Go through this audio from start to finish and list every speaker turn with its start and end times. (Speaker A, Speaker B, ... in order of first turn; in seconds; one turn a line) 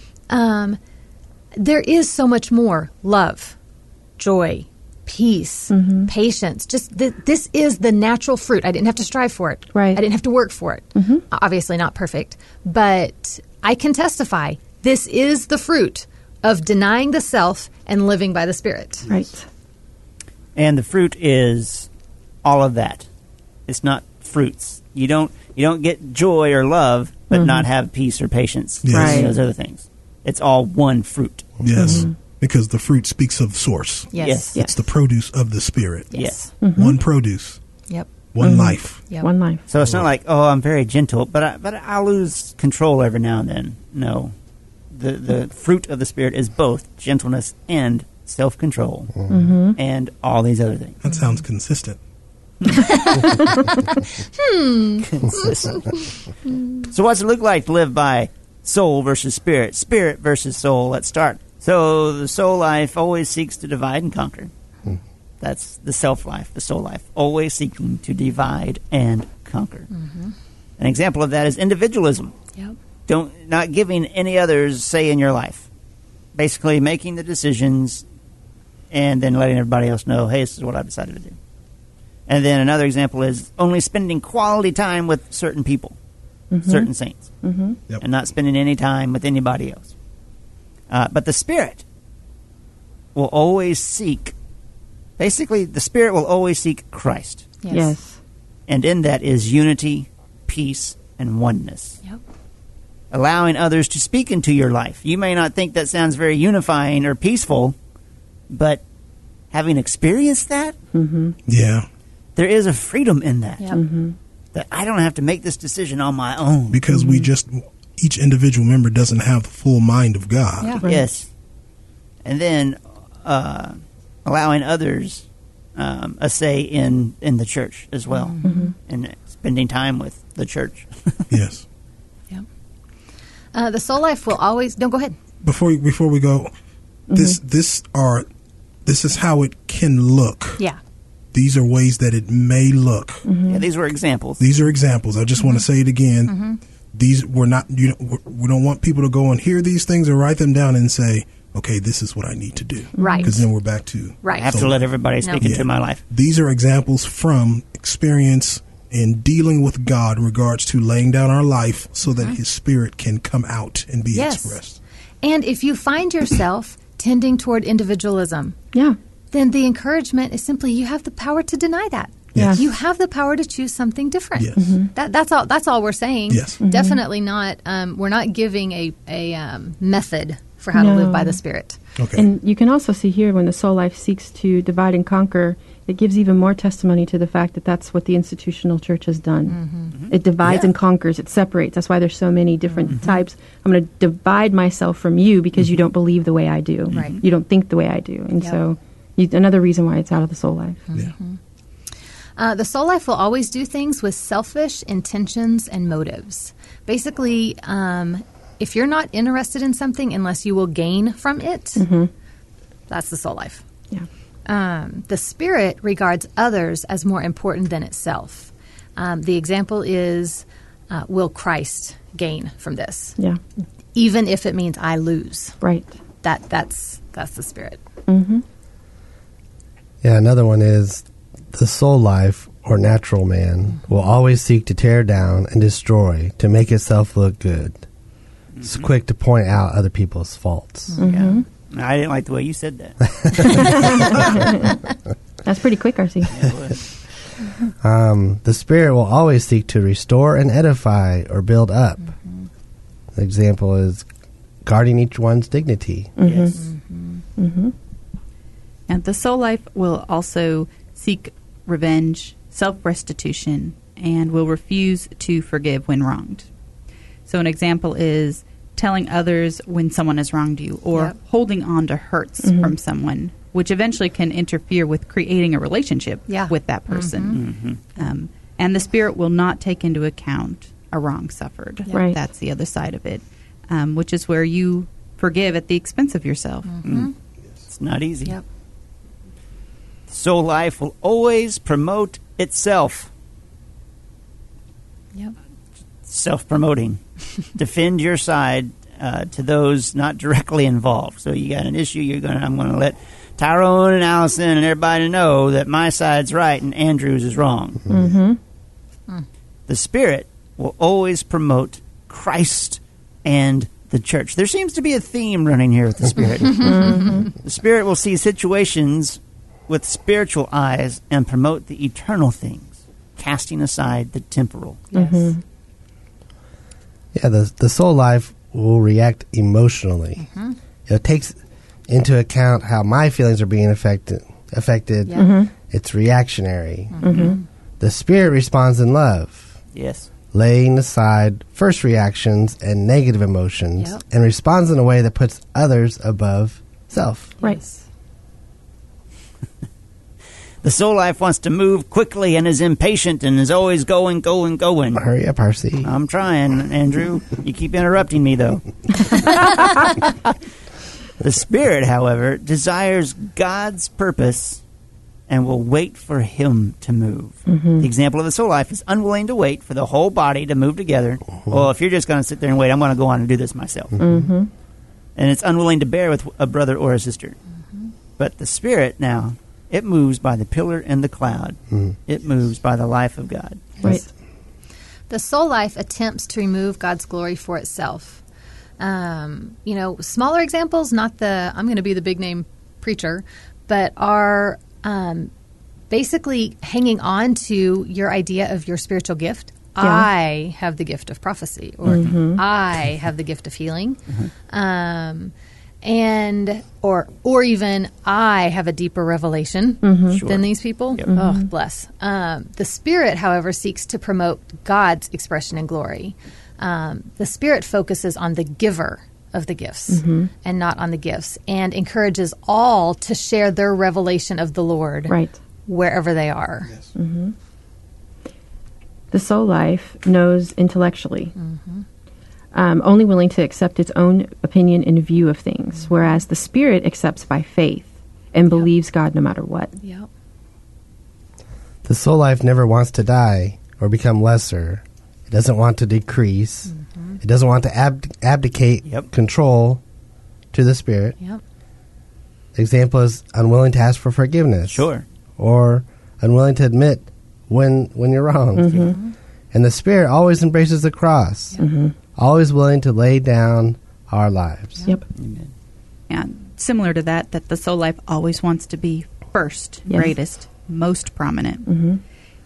Speaker A: 0.3-0.8
Speaker A: 1.6-3.5
Speaker A: 4.2-19.1
Speaker B: 5.7-6.1
Speaker B: 9.7-10.0
Speaker B: 10.9-11.2
Speaker B: 19.1-19.4
Speaker C: 20.6-21.9
Speaker C: 22.4-23.1
Speaker C: 23.7-31.6
Speaker B: 27.3-27.6
Speaker D: 28.9-29.3
Speaker B: 28.9-29.3
Speaker D: 31.6-36.1
Speaker B: 31.7-32.1
Speaker A: 34.1-34.5
Speaker C: 34.2-34.5
Speaker B: 34.5-34.8
Speaker A: 36.1-36.5
Speaker C: 36.1-36.4
Speaker B: 36.6-37.0
Speaker D: 36.7-37.6
Speaker D: 38.3-39.0
Speaker B: 38.4-39.6
Speaker C: 39.7-44.3
Speaker C: 44.9-51.0
Speaker B: 49.3-49.8
Speaker D: 51.0-52.0
Speaker A: 52.7-56.5
Speaker C: 55.1-56.0
Speaker C: 56.8-64.5
Speaker C: 65.4-69.9
Speaker A: 69.9-70.3
Speaker C: 70.8-72.3
Speaker C: 73.1-75.6
Speaker C: 76.3-78.0
Speaker C: 78.9-81.3
Speaker C: 82.3-86.0
Speaker B: 86.5-86.9
Speaker C: 86.7-87.3
Speaker B: 87.4-87.8
Speaker C: 88.0-89.9
Speaker C: 90.9-91.8
Speaker C: 93.1-94.3
Speaker C: 95.2-97.5
Speaker A: 97.6-97.9
Speaker B: 97.7-98.2
Speaker C: 98.7-102.0
Speaker C: 103.1-107.8
Speaker C: 108.5-108.8
Speaker C: 109.5-110.8
Speaker B: 110.9-111.3
Speaker D: 111.5-111.8
Speaker C: 112.3-113.7
Speaker B: 113.7-114.2
Speaker C: 114.5-116.8
Speaker D: 116.7-120.8
Speaker B: 116.9-117.3
Speaker A: 120.6-120.8
Speaker B: 120.8-121.1
Speaker C: 120.8-121.3
Speaker C: 122.2-125.2
Speaker C: 125.8-131.3
Speaker A: 128.1-128.7
Speaker B: 128.4-128.7
Speaker D: 131.3-131.6
Speaker A: 133.5-135.2
Speaker D: 135.4-136.5
Speaker B: 137.1-137.4
Speaker D: 137.1-138.2
Speaker D: 138.8-140.6
Speaker D: 141.3-143.2
Speaker B: 143.2-143.6
Speaker C: 143.5-144.4
Speaker D: 144.4-146.4
Speaker A: 146.3-146.6
Speaker D: 146.9-154.8
Speaker B: 152.9-153.4
Speaker A: 153.0-153.4
Speaker A: 154.2-154.6
Speaker C: 154.4-156.0
Speaker A: 155.2-155.6
Speaker D: 155.4-164.8
Speaker A: 164.1-164.6
Speaker A: 165.2-168.6
Speaker A: 169.3-181.8
Speaker D: 172.3-172.6
Speaker B: 172.4-172.6
Speaker D: 174.4-174.7
Speaker B: 174.6-174.9
Speaker D: 176.3-176.6
Speaker B: 176.6-177.0
Speaker B: 180.7-181.4
Speaker D: 182.0-182.3
Speaker B: 182.1-189.6
Speaker A: 189.5-189.9
Speaker C: 190.0-190.7
Speaker B: 190.1-200.8
Speaker A: 192.7-193.2
Speaker C: 196.9-197.2
Speaker A: 196.9-197.2
Speaker A: 200.9-201.4
Speaker A: 202.4-211.8
Speaker B: 211.8-212.1
Speaker A: 212.9-213.7
Speaker A: 214.4-223.2
Speaker A: 223.9-225.6
Speaker B: 225.6-225.9
Speaker A: 226.2-227.8
Speaker B: 228.1-228.4
Speaker E: 230.0-237.8
Speaker C: 238.6-238.8
Speaker E: 238.6-240.9
Speaker A: 240.9-241.4
Speaker B: 241.0-241.4
Speaker C: 241.0-244.1
Speaker B: 243.4-244.8
Speaker B: 245.4-246.4
Speaker C: 246.3-246.8
Speaker E: 247.8-252.1
Speaker A: 252.0-252.3
Speaker E: 253.1-254.1
Speaker E: 254.6-256.1
Speaker B: 256.2-256.6
Speaker C: 256.2-256.6
Speaker A: 256.6-257.2
Speaker B: 257.4-257.7
Speaker F: 258.9-266.5
Speaker F: 267.2-286.8
Speaker B: 272.5-272.7
Speaker A: 276.3-277.4
Speaker C: 277.3-277.8
Speaker B: 281.9-282.2
Speaker A: 286.7-287.1
Speaker C: 286.8-287.1
Speaker C: 287.7-288.4
Speaker C: 290.1-293.1
Speaker C: 296.0-297.0
Speaker C: 297.5-307.8
Speaker B: 307.9-308.4
Speaker C: 309.7-324.9
Speaker A: 316.1-317.3
Speaker B: 316.5-317.3
Speaker A: 324.9-325.4
Speaker B: 324.9-325.4
Speaker E: 327.1-330.2
Speaker A: 330.2-330.6
Speaker E: 330.9-331.4
Speaker E: 331.9-337.1
Speaker A: 335.1-335.3
Speaker B: 335.2-335.5
Speaker A: 336.9-337.4
Speaker B: 337.1-337.4
Speaker E: 337.8-339.5
Speaker C: 339.7-340.1
Speaker E: 340.3-347.3
Speaker A: 347.4-347.8
Speaker C: 350.6-355.0
Speaker E: 354.9-355.9
Speaker C: 355.8-360.3
Speaker C: 361.2-364.6
Speaker C: 365.3-374.0
Speaker B: 367.5-367.9
Speaker B: 374.0-374.5
Speaker C: 375.1-377.4
Speaker C: 378.2-383.8
Speaker A: 385.1-388.2
Speaker A: 388.8-395.3
Speaker A: 395.9-404.0
Speaker B: 399.8-400.1
Speaker B: 401.8-402.4
Speaker A: 404.5-425.1
Speaker B: 409.8-410.2
Speaker C: 410.1-411.1
Speaker B: 411.1-411.4
Speaker B: 419.9-420.3
Speaker B: 425.1-425.4
Speaker A: 425.6-426.7
Speaker B: 426.9-427.3
Speaker B: 429.1-431.3
Speaker A: 431.4-431.8
Speaker B: 432.5-439.7
Speaker A: 439.8-440.1
Speaker E: 441.8-449.8
Speaker A: 446.7-447.2
Speaker E: 450.5-451.2
Speaker E: 452.5-454.9
Speaker C: 454.7-455.0
Speaker E: 455.4-458.9
Speaker B: 458.6-458.9
Speaker A: 458.8-459.1
Speaker E: 459.5-461.6
Speaker B: 461.6-461.9
Speaker E: 462.1-464.8
Speaker C: 465.2-465.5
Speaker F: 466.1-471.7
Speaker B: 471.6-472.0